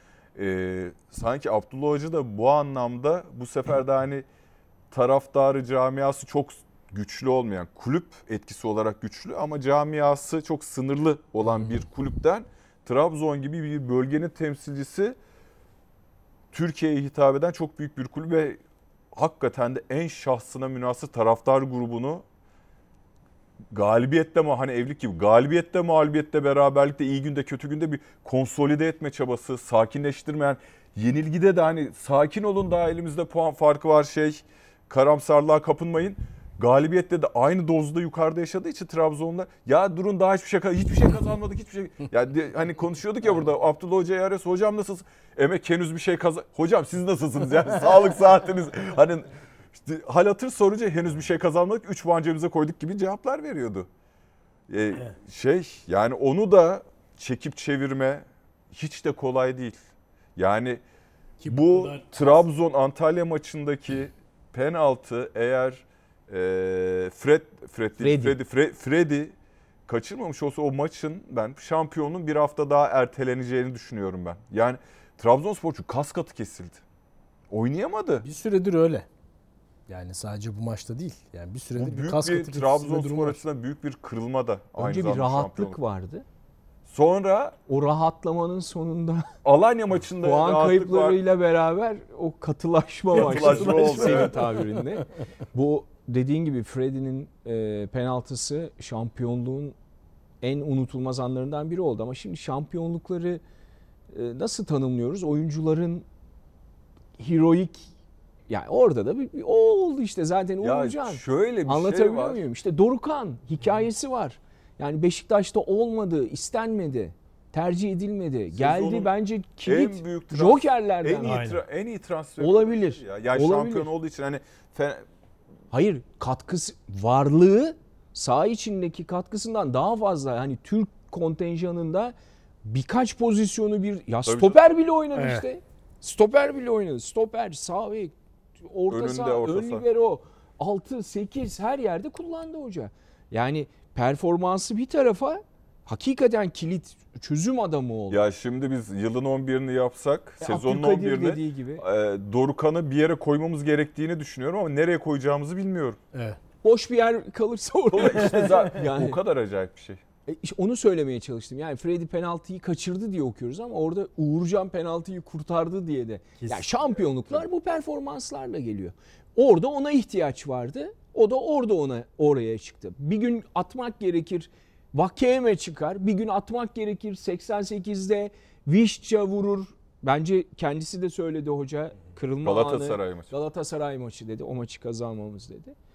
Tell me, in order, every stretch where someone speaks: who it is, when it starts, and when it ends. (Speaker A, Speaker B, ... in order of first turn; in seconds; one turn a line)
Speaker A: 0.3-4.2
Speaker A: 4.9-15.2
Speaker A: 16.5-18.6
Speaker A: 19.1-22.2
Speaker A: 23.7-53.9
Speaker A: 54.7-59.8
Speaker A: 60.4-60.8
Speaker B: 61.4-62.3
Speaker A: 61.5-69.3
Speaker C: 68.0-68.3
Speaker A: 69.9-76.8
Speaker A: 77.5-78.2
Speaker B: 78.2-79.1
Speaker B: 79.9-83.4
Speaker A: 81.8-85.8
Speaker C: 84.8-86.2
Speaker A: 86.8-87.6
Speaker C: 87.7-89.3
Speaker A: 89.4-91.2
Speaker C: 90.2-99.7
Speaker A: 93.1-94.4
Speaker B: 93.1-95.0
Speaker C: 100.4-103.4
Speaker C: 104.1-106.0
Speaker C: 107.2-107.9
Speaker C: 108.5-121.4
Speaker A: 110.6-112.4
Speaker A: 118.5-119.1
Speaker A: 119.6-125.0
Speaker B: 121.2-121.6
Speaker C: 122.4-123.9
Speaker C: 125.7-148.2
Speaker A: 134.2-134.6
Speaker B: 135.1-135.4
Speaker A: 138.9-139.8
Speaker A: 148.1-156.0
Speaker C: 150.4-151.8
Speaker B: 156.1-156.4
Speaker C: 156.6-159.2
Speaker A: 157.9-160.0
Speaker C: 160.3-185.7
Speaker B: 166.4-166.7
Speaker A: 182.4-183.3